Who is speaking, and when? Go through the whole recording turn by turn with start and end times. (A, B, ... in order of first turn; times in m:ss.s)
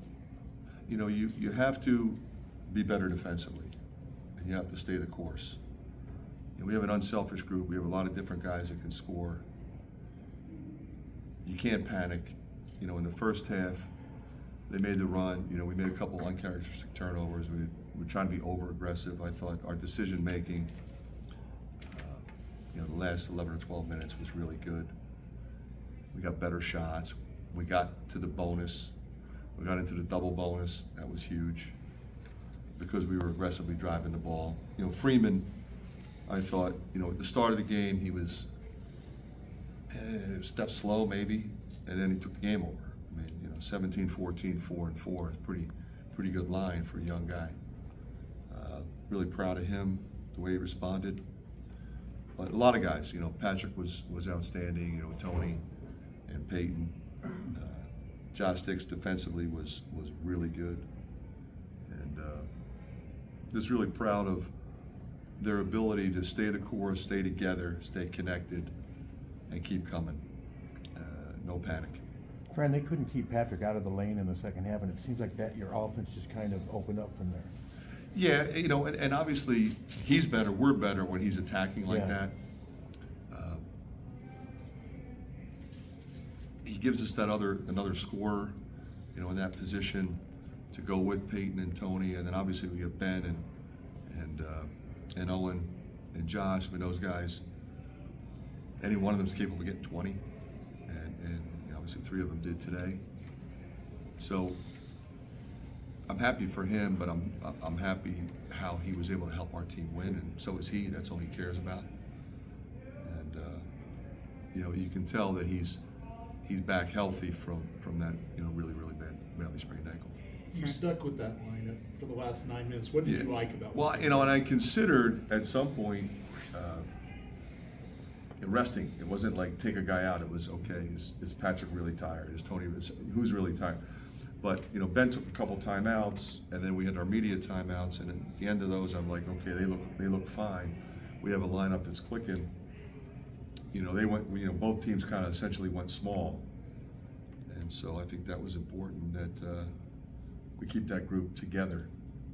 0:00.9-0:03.7 A
0:04.4-0:05.6 A
0:06.6-0:09.4 A
0:11.4-0:13.9 A
0:14.7-0:20.7 A
0:21.8-0:24.9 A
0:26.1-0:28.9 A
0:29.6-0:31.8 A
0:32.8-0:35.5 A
0:36.3-0:38.5 A
0:39.9-0:47.6 A
0:48.5-0:51.2 A
0:52.4-0:55.6 A
0:56.3-1:00.9 A
1:01.9-1:02.5 A
1:03.5-1:04.5 A
1:05.4-1:08.7 A
1:09.5-1:10.2 A
1:10.9-1:12.0 A
1:12.5-1:17.5 B
1:18.1-1:22.3 A
1:21.8-1:22.2 B
1:23.3-1:23.6 A
1:26.6-1:28.5 A
1:29.1-1:33.4 A
1:34.1-1:37.4 A
1:38.8-1:40.2 A
1:40.9-1:43.0 A
1:44.2-1:44.6 A
1:46.1-1:51.9 A
1:53.0-1:53.7 A
1:54.5-1:55.8 A
1:56.4-2:00.2 A
2:00.5-2:04.3 C
2:03.0-2:06.9 A
2:08.4-2:13.8 A
2:14.4-2:22.5 A
2:23.7-2:26.5 A
2:27.5-2:29.7 A
2:30.6-2:31.9 A